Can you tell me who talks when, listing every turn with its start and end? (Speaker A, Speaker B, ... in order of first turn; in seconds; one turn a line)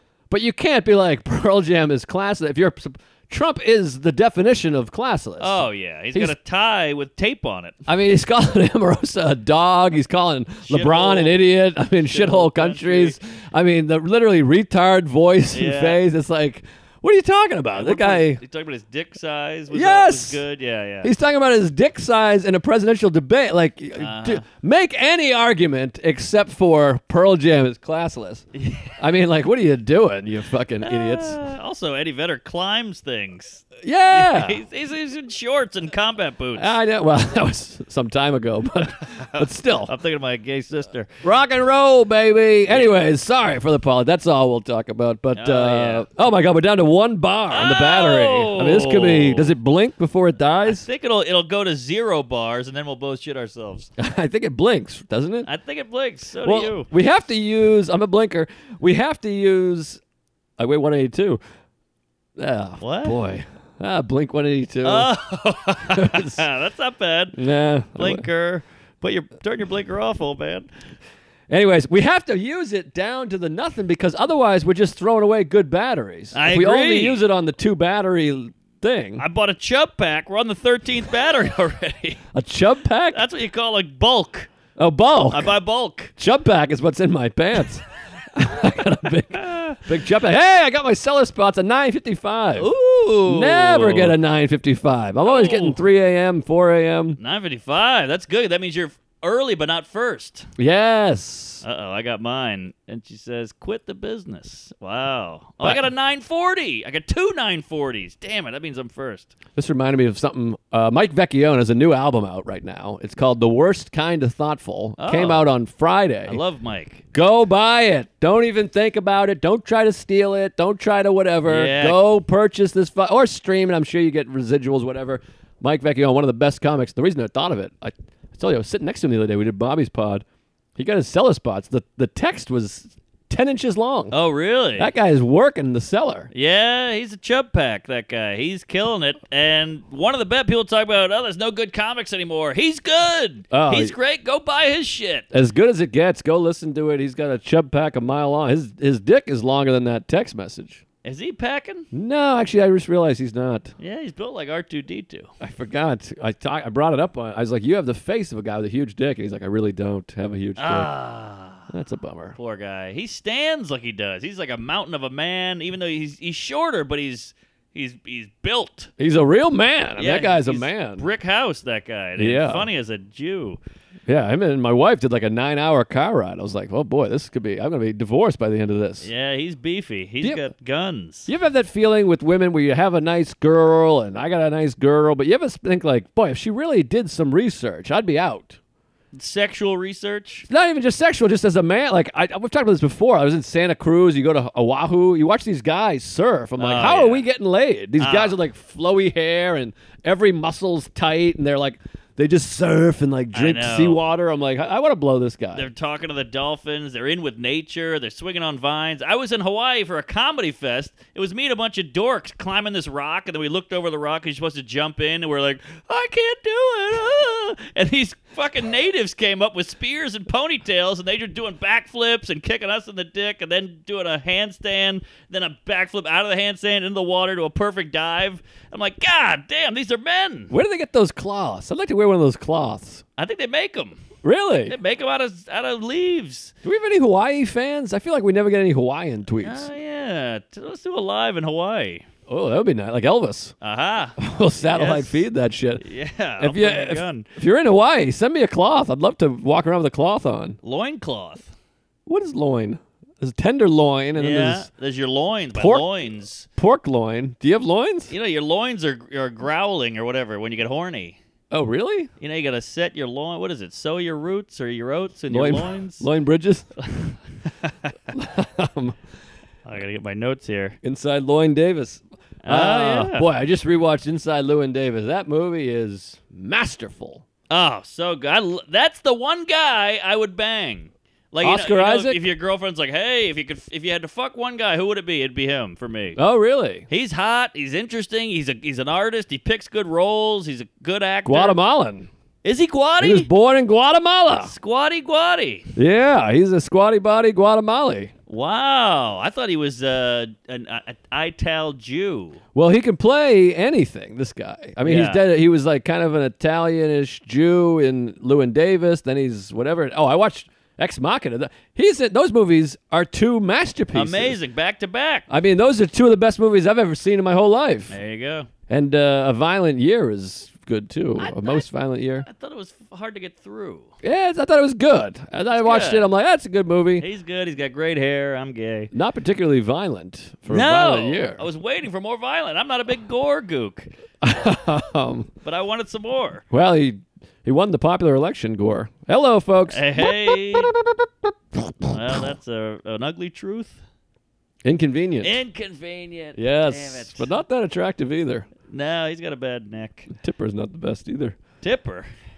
Speaker A: 0.3-6.3
Speaker B: 5.4-7.8
Speaker A: 7.9-18.4
Speaker B: 10.7-11.4
Speaker B: 12.1-13.2
Speaker B: 15.5-16.0
Speaker B: 17.7-21.1
Speaker A: 19.7-20.4
Speaker A: 21.0-28.4
Speaker B: 24.0-24.4
Speaker B: 28.6-28.9
Speaker A: 29.0-31.4
Speaker B: 30.8-36.8
Speaker A: 33.8-34.6
Speaker A: 36.6-39.9
Speaker B: 39.1-41.1
Speaker A: 41.2-50.9
Speaker B: 45.4-46.0
Speaker B: 47.5-49.6
Speaker B: 50.6-53.9
Speaker A: 54.0-55.5
Speaker B: 55.5-56.9
Speaker A: 56.4-60.0
Speaker A: 60.6-61.4
Speaker A: 62.4-65.1
Speaker B: 62.8-63.2
Speaker B: 64.8-67.4
Speaker A: 65.9-66.5
Speaker A: 67.4-68.2
Speaker B: 68.0-70.7
Speaker A: 71.5-79.2
Speaker B: 76.3-77.2
Speaker B: 79.2-82.2
Speaker A: 82.3-83.2
Speaker B: 83.1-84.5
Speaker A: 84.8-85.5
Speaker B: 85.3-86.1
Speaker A: 86.2-92.7
Speaker B: 89.3-89.8
Speaker B: 92.6-94.2
Speaker A: 93.2-97.2
Speaker B: 95.2-95.8
Speaker B: 97.2-100.5
Speaker A: 100.6-101.6
Speaker B: 101.6-109.3
Speaker A: 109.6-116.4
Speaker B: 115.0-115.5
Speaker B: 116.3-117.0
Speaker A: 117.1-130.2
Speaker B: 121.5-122.0
Speaker A: 130.8-134.2
Speaker B: 134.1-134.9
Speaker A: 134.8-136.3
Speaker B: 136.3-145.3
Speaker A: 143.5-143.9
Speaker A: 145.3-150.8
Speaker B: 151.0-151.9
Speaker A: 151.9-153.7
Speaker B: 153.8-155.3
Speaker A: 155.4-160.9
Speaker B: 160.6-161.7
Speaker A: 161.7-162.4
Speaker B: 162.4-168.9
Speaker A: 169.0-171.1
Speaker B: 170.0-173.6
Speaker A: 172.2-172.7
Speaker A: 174.1-179.1
Speaker B: 179.0-181.3
Speaker A: 181.3-188.6
Speaker B: 189.1-190.5
Speaker A: 190.5-205.7
Speaker B: 196.6-197.2
Speaker B: 198.0-198.4
Speaker B: 203.3-204.0
Speaker B: 205.6-230.5
Speaker A: 230.5-233.0
Speaker B: 233.2-234.0
Speaker A: 234.2-234.8
Speaker B: 234.7-236.5
Speaker A: 236.6-239.7
Speaker B: 239.4-242.1
Speaker A: 242.3-243.5
Speaker B: 243.6-244.2
Speaker A: 244.2-245.8
Speaker B: 244.7-245.3
Speaker B: 245.8-247.3
Speaker A: 246.4-250.6
Speaker B: 250.6-251.5
Speaker A: 252.1-254.7
Speaker B: 254.2-256.5
Speaker A: 255.5-255.9
Speaker A: 256.6-258.1
Speaker B: 258.1-261.2
Speaker A: 261.5-262.1
Speaker B: 262.2-266.1
Speaker A: 265.3-267.1
Speaker B: 267.6-267.9
Speaker A: 268.1-269.0
Speaker B: 269.6-270.8
Speaker A: 270.8-277.2
Speaker B: 272.4-273.3
Speaker B: 277.5-286.2
Speaker A: 281.4-282.2
Speaker A: 286.2-286.9
Speaker B: 286.9-291.6
Speaker A: 291.3-292.1
Speaker B: 292.4-293.3
Speaker A: 293.0-294.5
Speaker B: 294.4-295.7
Speaker A: 295.8-298.1
Speaker B: 298.3-302.4
Speaker A: 302.6-314.4
Speaker B: 304.8-305.3
Speaker B: 313.9-315.3
Speaker A: 315.3-318.0
Speaker B: 317.9-318.5
Speaker A: 318.7-322.3
Speaker B: 321.2-321.7
Speaker B: 322.2-323.9
Speaker A: 324.0-327.1
Speaker B: 325.5-326.1
Speaker B: 327.0-328.9
Speaker A: 328.9-331.4
Speaker B: 330.5-333.9
Speaker A: 334.2-335.3
Speaker B: 335.4-336.4
Speaker A: 336.5-341.3
Speaker B: 339.7-340.7
Speaker A: 341.8-342.2
Speaker B: 341.9-343.8
Speaker A: 344.6-345.4
Speaker B: 345.2-347.3
Speaker A: 346.4-348.5
Speaker B: 348.7-350.1
Speaker A: 350.1-351.4
Speaker B: 351.6-352.1